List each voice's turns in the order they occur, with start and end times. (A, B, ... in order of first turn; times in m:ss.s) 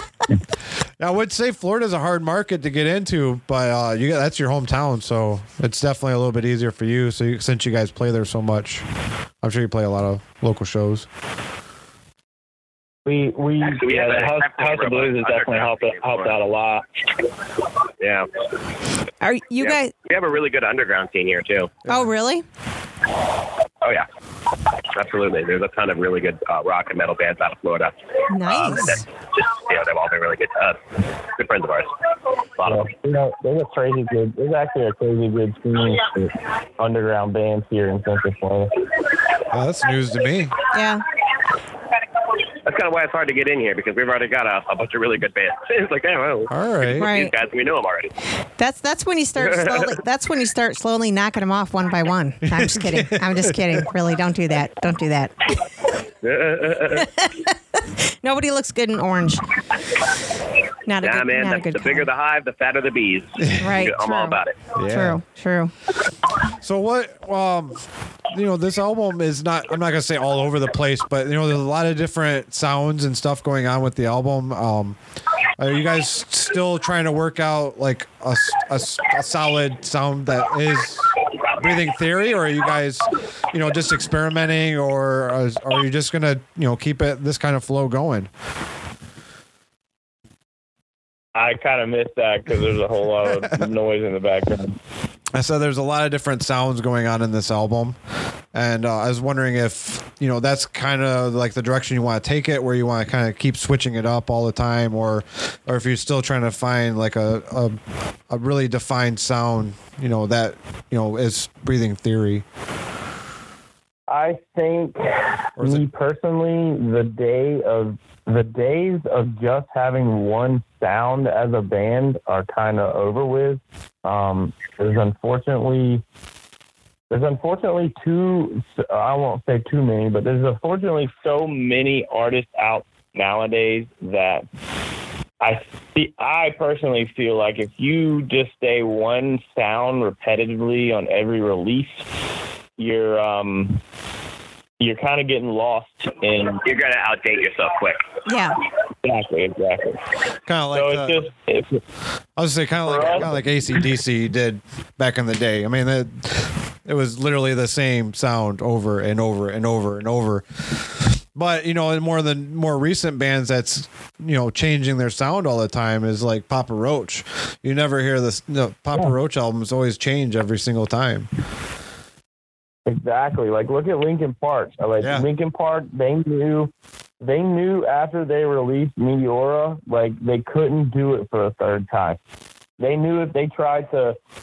0:01.0-0:08.8 A
0:09.4-0:11.1 A
0:13.1-0:13.9 B
0:13.6-0:16.4 C
0:13.8-0:16.8 D
0:18.0-0:18.3 C
0:19.2-0:19.9 E
0:19.6-0:21.8 C
0:21.9-0:22.4 E
0:24.9-0:30.8 C
0:28.3-0:29.0 E
0:31.4-0:31.9 C
0:32.6-0:32.9 C
0:32.6-0:38.8 B
0:39.5-0:40.6 A
0:40.7-0:41.0 E
0:42.6-0:48.1 C
0:46.5-0:47.1 A
0:47.0-0:47.3 E
0:48.6-0:55.5 E
0:49.5-0:50.0 C
0:52.4-0:53.8 A
0:56.2-0:57.1 C
0:56.9-0:57.5 E
0:58.2-0:59.5 E
1:00.9-1:02.1 E
1:01.0-1:04.6 C
1:03.6-1:05.7 E
1:04.8-1:05.2 A
1:06.6-1:15.0 A
1:15.6-1:28.3 A
1:31.4-1:34.8 B
1:33.2-1:33.6 A
1:35.3-1:38.0 A
1:38.5-1:47.8 A
1:48.3-1:52.4 A
1:54.1-2:06.0 B
1:55.6-1:55.8 A
2:07.1-2:14.5 B
2:15.4-2:22.0 B
2:22.8-2:23.8 B
2:24.8-2:26.6 B
2:26.6-2:28.0 C
2:28.3-2:28.6 E
2:29.0-2:30.0 B
2:30.5-2:31.2 A
2:30.7-2:31.8 B
2:32.4-2:51.3 A
2:32.9-2:33.4 B
2:52.9-3:02.2 B
2:55.0-2:55.3 A
3:02.8-3:04.2 B